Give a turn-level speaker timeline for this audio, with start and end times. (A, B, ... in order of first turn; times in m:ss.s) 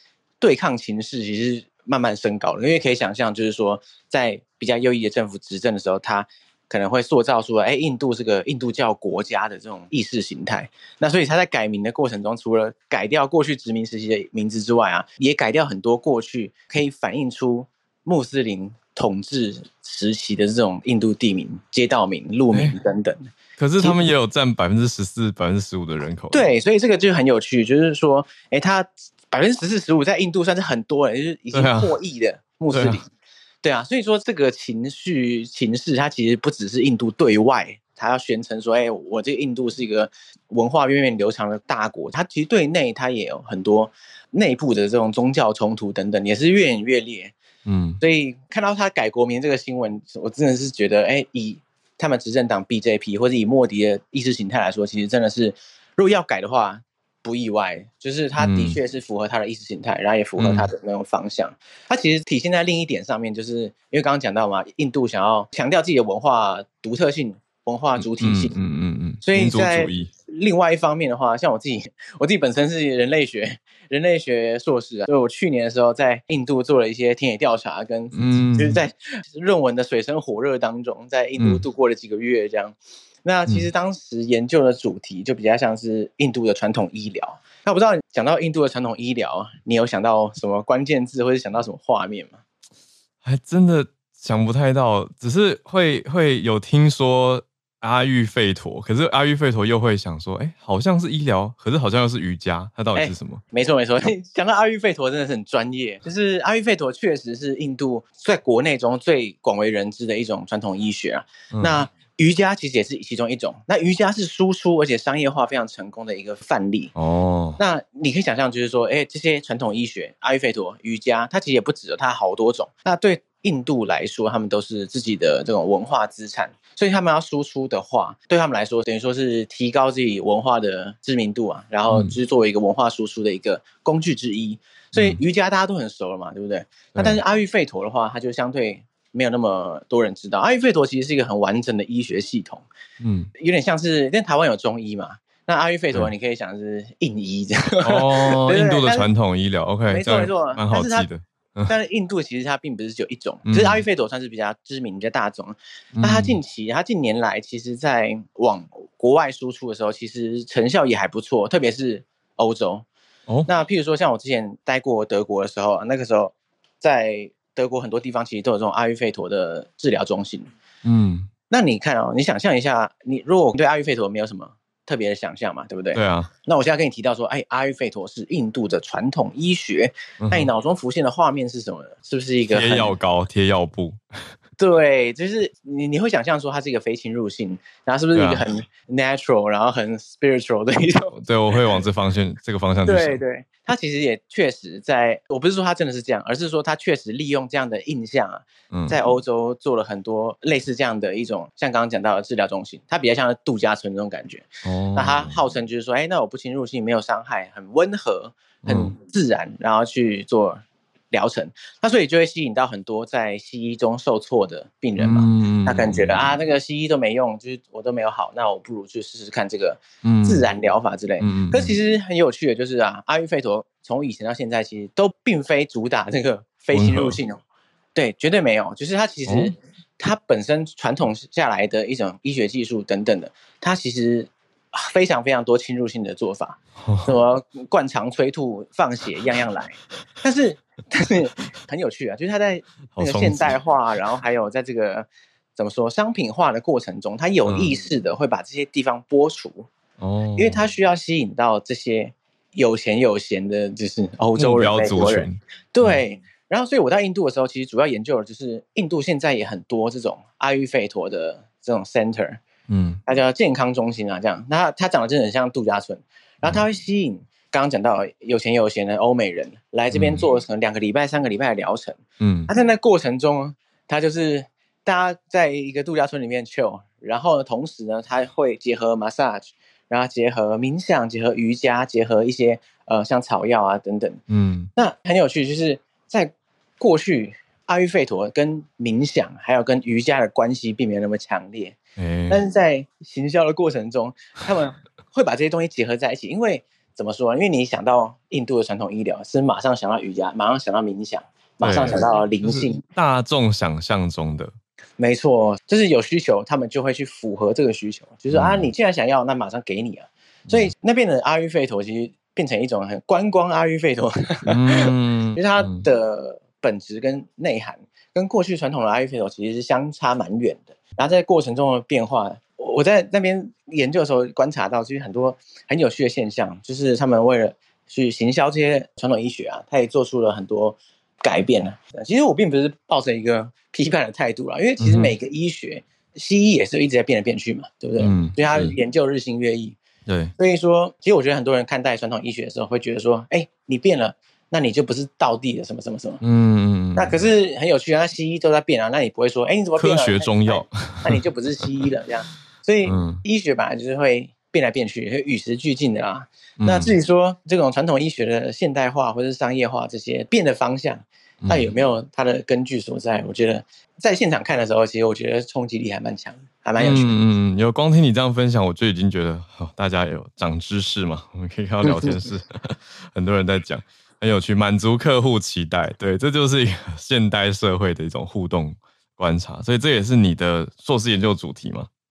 0:00.4-0:24.0 A
0:22.5-0:22.8 B
0:23.6-0:26.5 B
0:26.3-0:33.1 A
0:31.5-0:31.9 B
0:32.7-0:33.0 B
0:33.6-0:47.3 A
0:47.6-0:48.0 B
0:48.0-1:08.6 A
0:58.4-0:58.8 B
1:00.4-1:00.7 B
1:08.0-1:10.1 B
1:09.2-1:32.4 A
1:18.1-1:18.8 B
1:33.2-1:43.4 B
1:43.0-1:56.9 A
1:51.5-1:51.8 B
1:56.9-1:57.6 B
1:57.6-2:22.7 A
2:11.9-2:12.1 B
2:23.0-2:23.3 B
2:23.4-2:29.1 A
2:27.8-2:31.7 B
2:29.9-2:31.1 A
2:31.7-2:42.8 A
2:33.4-2:33.8 B
2:35.9-2:36.4 B
2:43.5-2:50.5 A
2:50.8-2:51.3 B
2:51.5-3:02.9 A
2:55.9-2:56.3 B
3:00.2-3:00.5 B
3:02.5-3:04.0 B
3:04.6-3:11.8 A
3:08.1-3:08.4 B
3:11.1-3:13.2 B
3:12.8-3:47.4 A
3:18.7-3:19.0 B
3:24.6-3:25.4 B
3:28.6-3:28.9 B
3:35.0-3:36.3 B
3:40.0-3:40.4 B
3:41.2-3:41.8 B
3:46.7-3:47.2 B
3:47.9-4:09.7 A
3:49.3-3:49.5 B
3:56.8-3:57.1 B
4:02.9-4:03.6 B
4:07.4-4:07.7 B
4:10.0-4:10.6 B
4:10.4-4:22.4 A
4:14.4-4:16.0 B
4:22.7-4:23.0 B
4:23.0-4:44.2 A
4:29.9-4:30.2 B
4:32.2-4:32.5 B
4:44.3-4:44.7 B
4:44.8-4:51.8 A
4:52.0-4:52.4 B
4:52.3-5:02.8 A
5:01.6-5:04.5 B
5:05.0-5:39.8 A
5:08.3-5:08.7 B
5:14.4-5:15.8 B
5:34.8-5:35.1 B
5:38.0-5:38.8 B
5:40.0-5:40.3 B
5:40.4-5:46.2 A
5:46.2-5:47.2 B
5:46.9-6:07.1 A
5:49.8-5:51.2 B
5:52.8-5:53.2 B
5:56.6-5:57.0 B
6:01.4-6:01.7 B
6:06.8-6:21.9 B
6:11.8-6:12.2 A